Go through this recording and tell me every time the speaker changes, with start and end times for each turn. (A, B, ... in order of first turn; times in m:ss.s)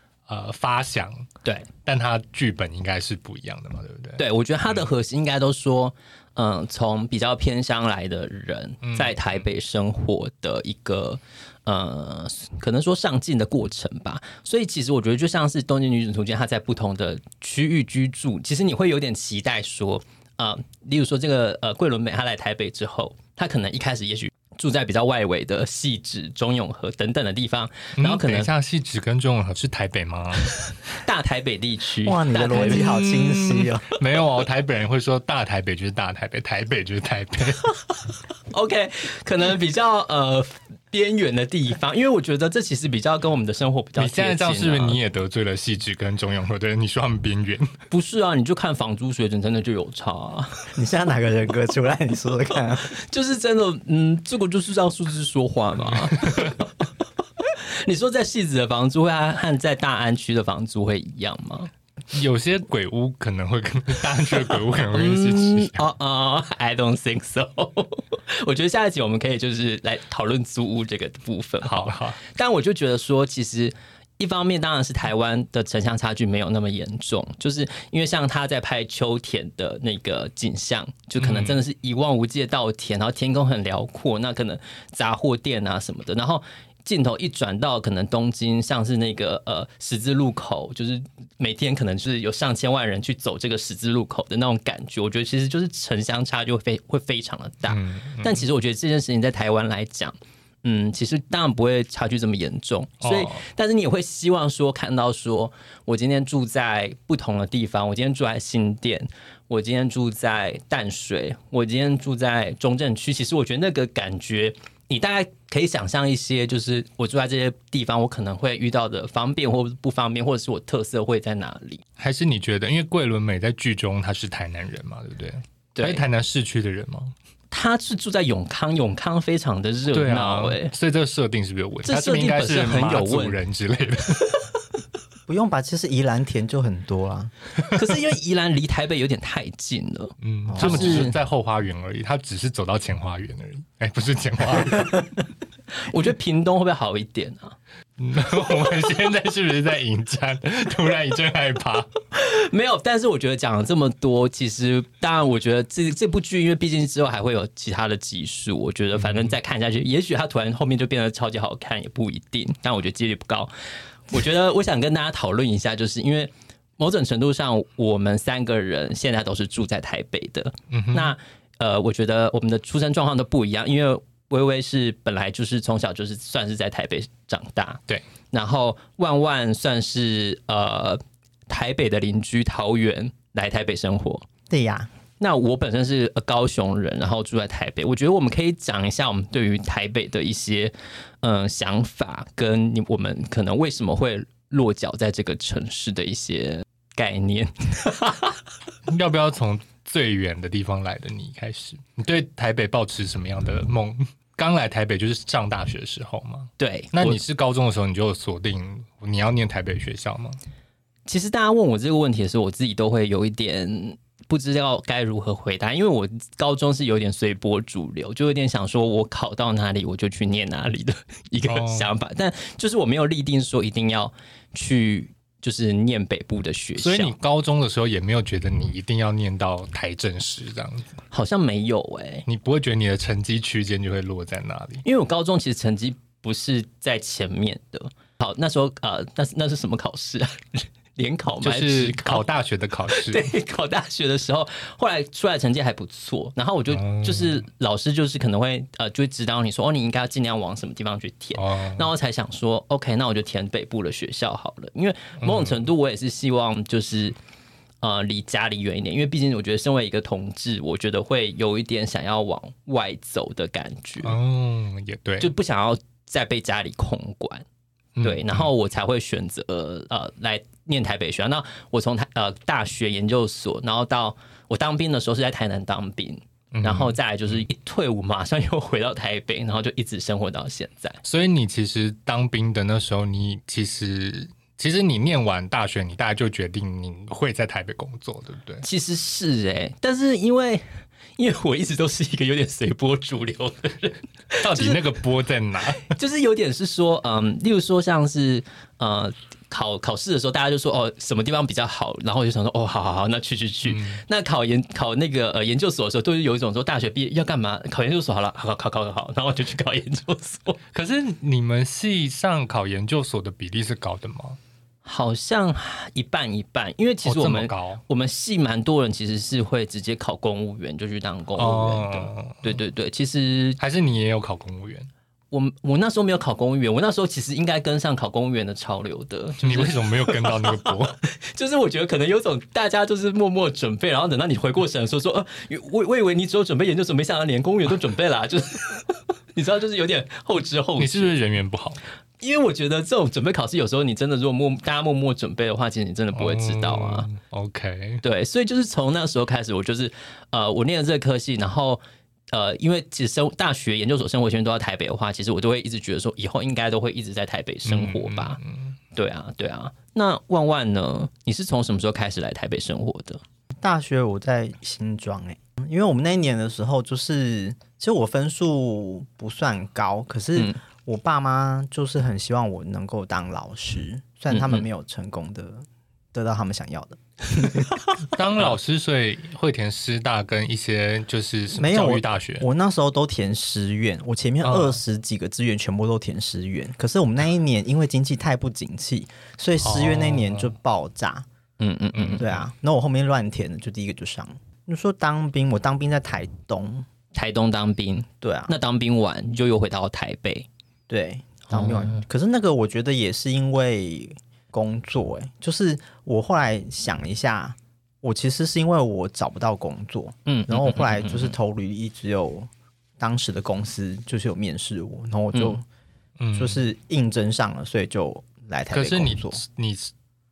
0:00.3-0:01.3 A
0:01.8-0:04.9 A
0:04.2-0:28.5 B
0:08.8-0:09.4 A
0:28.0-0:30.6 A
0:30.6-0:33.0 B
0:32.0-0:34.0 C
0:32.5-0:37.7 A
0:38.5-0:45.0 B
0:44.0-0:47.7 A
0:47.9-0:50.7 B
0:50.7-0:52.9 C
0:52.8-0:56.9 B
0:55.9-0:56.6 A
0:57.4-1:01.7 B
1:02.1-1:05.8 A
1:04.3-2:01.8 B
1:11.6-1:12.2 A
1:21.2-1:21.6 A
1:37.7-1:38.4 A
1:43.0-1:43.4 A
2:02.0-2:07.1 A
2:05.8-2:06.0 B
2:07.5-2:10.7 B
2:09.9-2:14.4 A
2:11.8-2:13.4 B
2:15.3-2:17.3 C
2:17.7-2:21.2 B
2:20.2-2:25.1 A
2:20.5-2:21.1 C
2:25.7-2:27.5 B
2:28.0-2:31.9 A
2:32.1-2:43.5 B
2:39.0-2:39.4 A
2:44.1-3:04.3 B
2:50.7-2:51.1 A
3:04.5-3:04.9 C
3:05.2-3:18.4 B
3:18.9-3:30.4 A
3:26.6-3:27.2 B
3:31.1-3:47.1 B
3:41.5-3:41.9 A
3:46.8-3:50.9 A
3:51.1-3:52.2 B
3:52.2-3:54.8 A
3:54.8-4:02.2 B
4:01.4-4:03.3 A
4:02.9-4:17.2 B
4:06.7-4:07.4 A
4:11.4-4:11.9 A
4:15.2-4:15.6 A
4:17.8-4:24.2 B
4:24.0-4:25.3 A
4:25.2-4:27.4 B
4:28.0-4:28.5 A
4:28.0-4:41.0 B
4:36.5-4:37.4 A
4:41.0-4:48.6 A
4:48.6-4:50.6 B
4:51.2-4:54.8 B
4:54.4-4:55.9 A
4:55.8-5:10.6 B
5:03.6-5:04.0 A
5:10.7-5:14.4 A
5:14.8-5:23.6 B
5:17.0-5:17.8 A
5:21.4-5:22.6 A
5:23.6-5:24.9 A
5:25.3-5:41.2 B
5:29.4-5:31.0 A
5:40.8-5:41.8 A
5:42.2-5:47.1 B
5:46.1-5:48.0 A
5:48.0-5:58.4 B
5:57.6-5:58.7 A
5:58.9-6:03.2 B
6:03.6-6:17.7 C
6:14.3-6:14.6 B
6:18.0-6:22.4 A
6:21.5-6:31.2 C
6:24.4-6:24.8 A
6:29.6-6:30.5 A
6:31.6-6:32.2 B
6:31.9-6:32.4 A
6:32.2-6:36.9 C
6:37.1-6:40.5 B
6:38.2-6:38.5 C
6:40.9-6:55.6 C
6:41.5-6:42.0 B
6:50.3-6:51.4 B
6:55.3-6:55.6 B
6:56.2-6:56.6 A
6:56.3-6:59.4 C
6:58.7-6:59.9 A